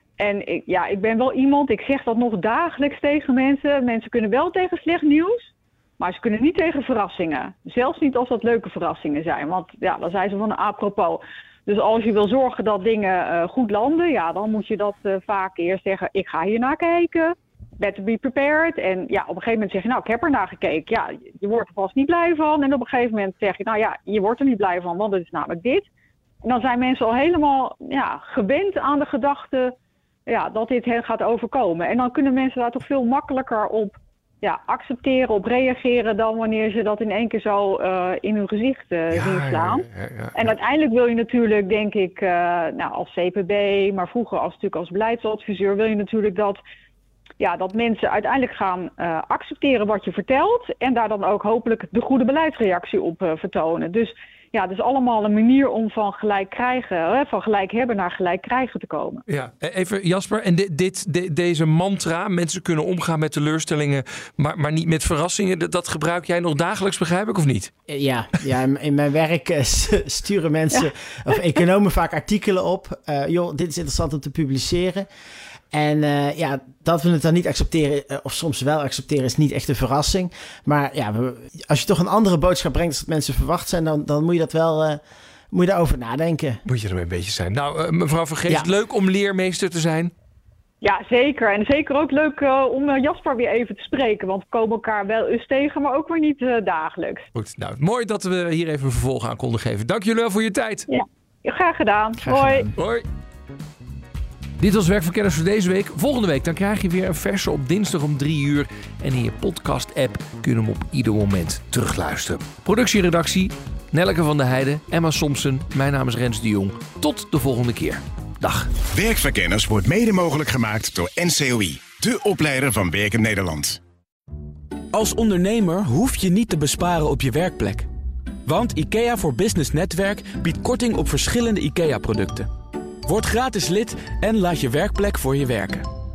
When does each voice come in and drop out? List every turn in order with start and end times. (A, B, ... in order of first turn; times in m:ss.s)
0:00.2-0:25.9 A
0:26.4-0:29.8 A
0:30.3-0:46.6 A
0:39.1-0:40.6 B
0:47.4-0:59.2 A
0:59.3-1:07.7 B
1:07.9-1:15.1 C
1:10.7-1:11.6 A
1:15.7-1:25.0 C
1:25.5-1:26.6 C
1:26.7-1:30.1 B
1:30.8-1:37.3 A
1:37.4-1:40.8 B
1:40.9-1:42.7 A
1:42.2-1:42.6 C
1:42.8-1:43.1 B
1:44.6-1:58.7 B
1:58.9-2:03.8 D
2:04.9-2:07.9 E
2:08.5-2:12.5 E
2:13.1-2:15.9 E